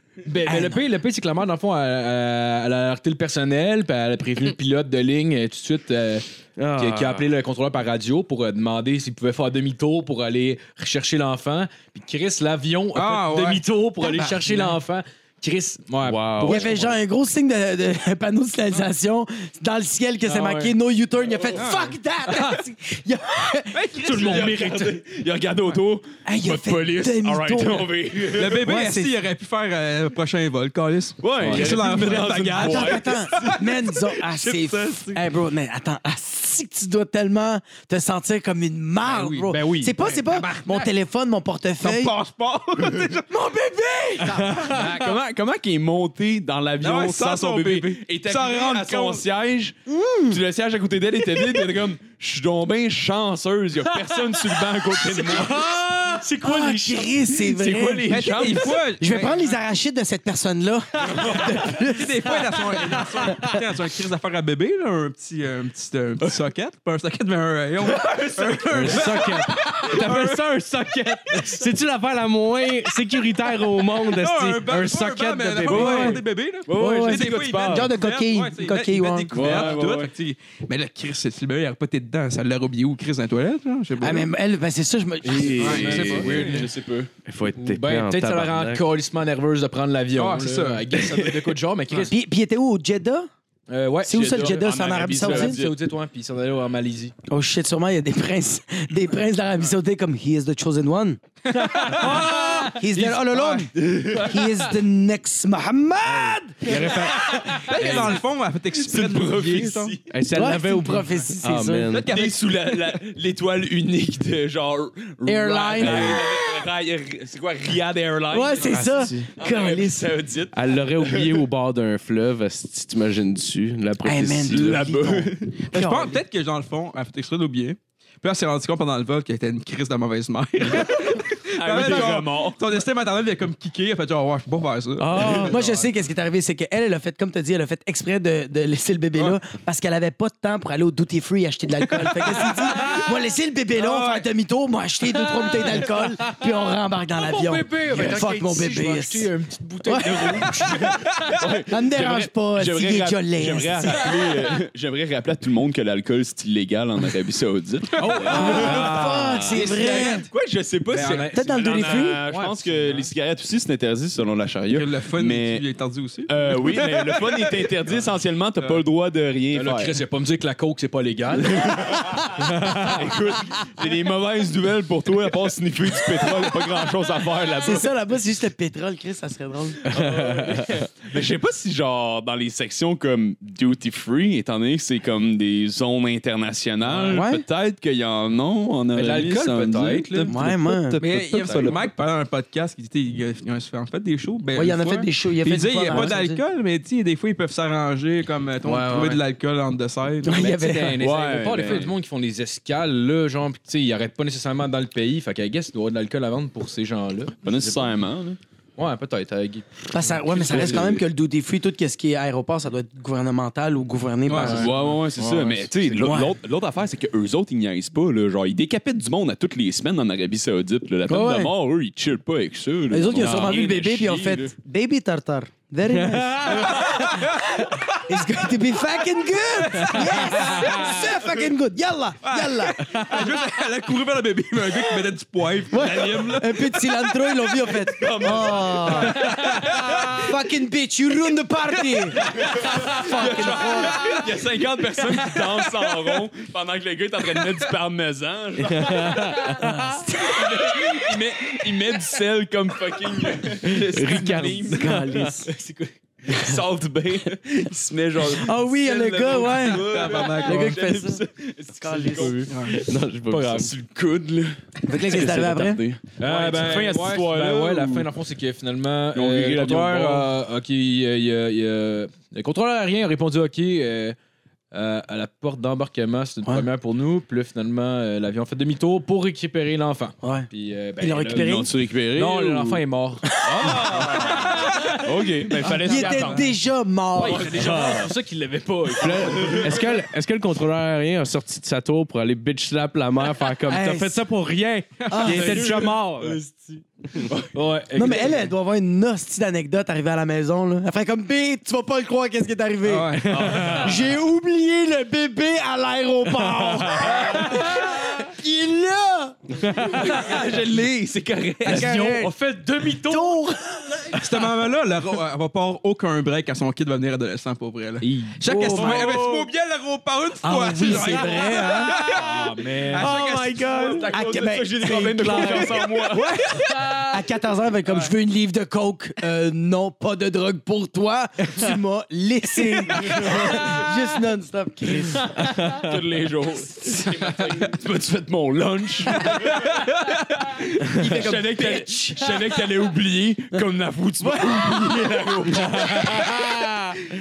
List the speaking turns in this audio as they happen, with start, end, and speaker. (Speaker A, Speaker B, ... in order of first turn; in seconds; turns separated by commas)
Speaker A: 0.2-16.9, Speaker B: 0.4-0.8, Speaker C: 6.6-7.3, Speaker D: 12.9-14.8, Speaker C: 16.0-16.7, Speaker B: 16.4-23.9, Speaker A: 20.2-20.8, Speaker D: 21.5-21.9, Speaker A: 22.3-22.6, Speaker D: 23.7-24.8, Speaker A: 24.0-25.0, Speaker E: 24.1-28.7, Speaker B: 26.2-29.2, Speaker D: 28.2-35.2, Speaker E: 31.2-33.6, Speaker A: 31.4-31.8, Speaker B: 32.6-42.1, Speaker A: 39.0-40.1, Speaker D: 40.0-40.9, Speaker D: 41.8-43.3, Speaker B: 43.3-44.7, Speaker C: 44.4-44.7, Speaker E: 44.6-56.1, Speaker A: 44.6-45.1, Speaker D: 46.8-49.2, Speaker B: 49.9-50.4, Speaker A: 55.1-57.2, Speaker B: 56.4-58.2, Speaker E: 57.3-58.8, Speaker D: 58.1-59.6, Speaker B: 59.0-63.5, Speaker E: 61.1-61.5, Speaker D: 61.2-70.4, Speaker E: 68.0-69.0, Speaker C: 68.7-76.2, Speaker D: 74.1-84.3, Speaker B: 75.6-79.4, Speaker E: 75.7-77.9, Speaker E: 79.3-80.1, Speaker A: 79.4-79.9, Speaker B: 84.0-86.3, Speaker E: 85.2-87.1, Speaker A: 85.4-86.5, Speaker D: 85.6-86.7, Speaker C: 87.3-88.8, Speaker A: 87.5-92.1, Speaker D: 90.1-91.1, Speaker B: 92.1-93.3, Speaker A: 93.7-97.1, Speaker B: 94.0-95.6, Speaker E: 94.1-95.8, Speaker B: 97.3-101.2, Speaker D: 101.5-103.7, Speaker A: 101.6-102.8, Speaker B: 101.8-107.0, Speaker C: 106.6-107.5, Speaker D: 107.6-110.0, Speaker E: 107.7-108.2, Speaker E: 108.7-110.1, Speaker C: 110.1-112.1, Speaker B: 110.3-112.0, Speaker D: 111.9-113.0, Speaker E: 112.1-121.5, Speaker B: 115.2-116.3, Speaker C: 115.8-116.2, Speaker B: 118.3-120.1, Speaker C: 118.7-119.3, Speaker C: 120.5-124.8, Speaker B: 124.0-126.2, Speaker E: 124.4-125.5, Speaker D: 125.7-135.9, Speaker E: 131.5-132.6, Speaker C: 135.0-135.6, Speaker B: 135.1-149.3, Speaker D: 141.9-143.1, Speaker D: 143.7-144.3, Speaker A: 147.2-151.1, Speaker B: 149.8-150.9, Speaker E: 151.3-165.6, Speaker B: 151.7-154.2, Speaker A: 158.0-159.7, Speaker B: 158.2-160.3, Speaker D: 158.3-158.9, Speaker D: 159.5-160.3, Speaker A: 160.9-163.1, Speaker D: 160.9-161.2, Speaker B: 161.3-162.2, Speaker D: 164.7-167.8, Speaker E: 166.2-170.0, Speaker D: 168.6-168.8, Speaker A: 169.5-172.0, Speaker E: 171.4-177.9, Speaker C: 172.4-172.9, Speaker B: 177.6-179.8, Speaker A: 179.9-180.9, Speaker C: 179.9-180.7, Speaker E: 181.0-191.8, Speaker A: 186.8-187.2, Speaker B: 187.1-187.4, Speaker A: 188.9-190.4, Speaker B: 190.3-191.0, Speaker D: 191.0-200.5, Speaker B: 194.5-196.4, Speaker A: 198.6-199.2, Speaker B: 200.2-201.0, Speaker A: 200.3-207.9, Speaker E: 201.0-201.9, Speaker E: 207.4-208.4, Speaker A: 208.8-211.0, Speaker B: 209.9-214.7, Speaker E: 210.4-211.0, Speaker D: 214.3-214.7, Speaker A: 214.3-216.1, Speaker E: 214.4-224.5, Speaker B: 216.0-216.3, Speaker B: 221.1-221.5, Speaker B: 222.9-233.4, Speaker A: 223.1-223.6, Speaker C: 225.9-226.7, Speaker D: 226.5-228.0, Speaker D: 229.7-231.3, Speaker C: 229.8-231.0, Speaker D: 232.2-237.3, Speaker C: 232.8-233.2, Speaker B: 235.7-244.2, Speaker E: 237.8-239.2, Speaker D: 239.1-240.2, Speaker C: 239.3-240.1, Speaker D: 242.2-244.2, Speaker E: 242.2-249.6, Speaker C: 248.7-249.8, Speaker B: 249.6-251.0, Speaker E: 250.2-255.1, Speaker C: 253.7-255.4, Speaker B: 254.7-255.5, Speaker A: 255.4-255.9, Speaker E: 256.2-262.8, Speaker B: 258.3-261.2, Speaker D: 259.1-260.8, Speaker B: 261.8-262.5, Speaker A: 262.1-262.7, Speaker D: 262.5-262.8, Speaker C: 262.7-263.7, Speaker A: 263.3-263.7, Speaker E: 263.5-268.1, Speaker B: 264.8-265.8, Speaker A: 266.2-274.1, Speaker E: 269.1-270.3, Speaker A: 274.7-286.5, Speaker B: 280.2-280.5, Speaker B: 281.0-281.7, Speaker E: 281.3-282.8, Speaker B: 283.4-284.3, Speaker E: 283.4-286.5, Speaker B: 285.6-288.0, Speaker D: 286.1-286.4, Speaker A: 287.1-289.8, Speaker C: 287.6-288.1, Speaker C: 288.9-296.4, Speaker B: 293.6-294.2, Speaker D: 295.0-295.9, Speaker B: 295.1-295.9, Speaker A: 295.2-298.5, Speaker B: 297.9-310.2, Speaker D: 302.8-303.9, Speaker C: 303.2-303.8, Speaker E: 303.4-303.9, Speaker C: 306.4-307.8, Speaker C: 309.6-310.1, Speaker E: 309.8-312.0, Speaker D: 311.6-312.3, Speaker A: 311.6-313.7, Speaker B: 312.9-314.1, Speaker D: 314.1-324.1, Speaker A: 318.0-319.2, Speaker B: 318.5-319.2, Speaker E: 318.8-319.4, Speaker B: 320.4-321.9, Speaker A: 322.0-323.1, Speaker C: 322.9-324.1, Speaker E: 323.7-326.6, Speaker B: 324.1-335.3, Speaker C: 325.2-325.7, Speaker C: 331.4-331.7, Speaker C: 332.6-333.3, Speaker C: 335.2-335.9, Speaker E: 335.7-339.8, Speaker E: 340.5-346.4, Speaker C: 340.9-341.2, Speaker B: 341.0-342.4, Speaker B: 344.2-346.2, Speaker C: 345.6-347.0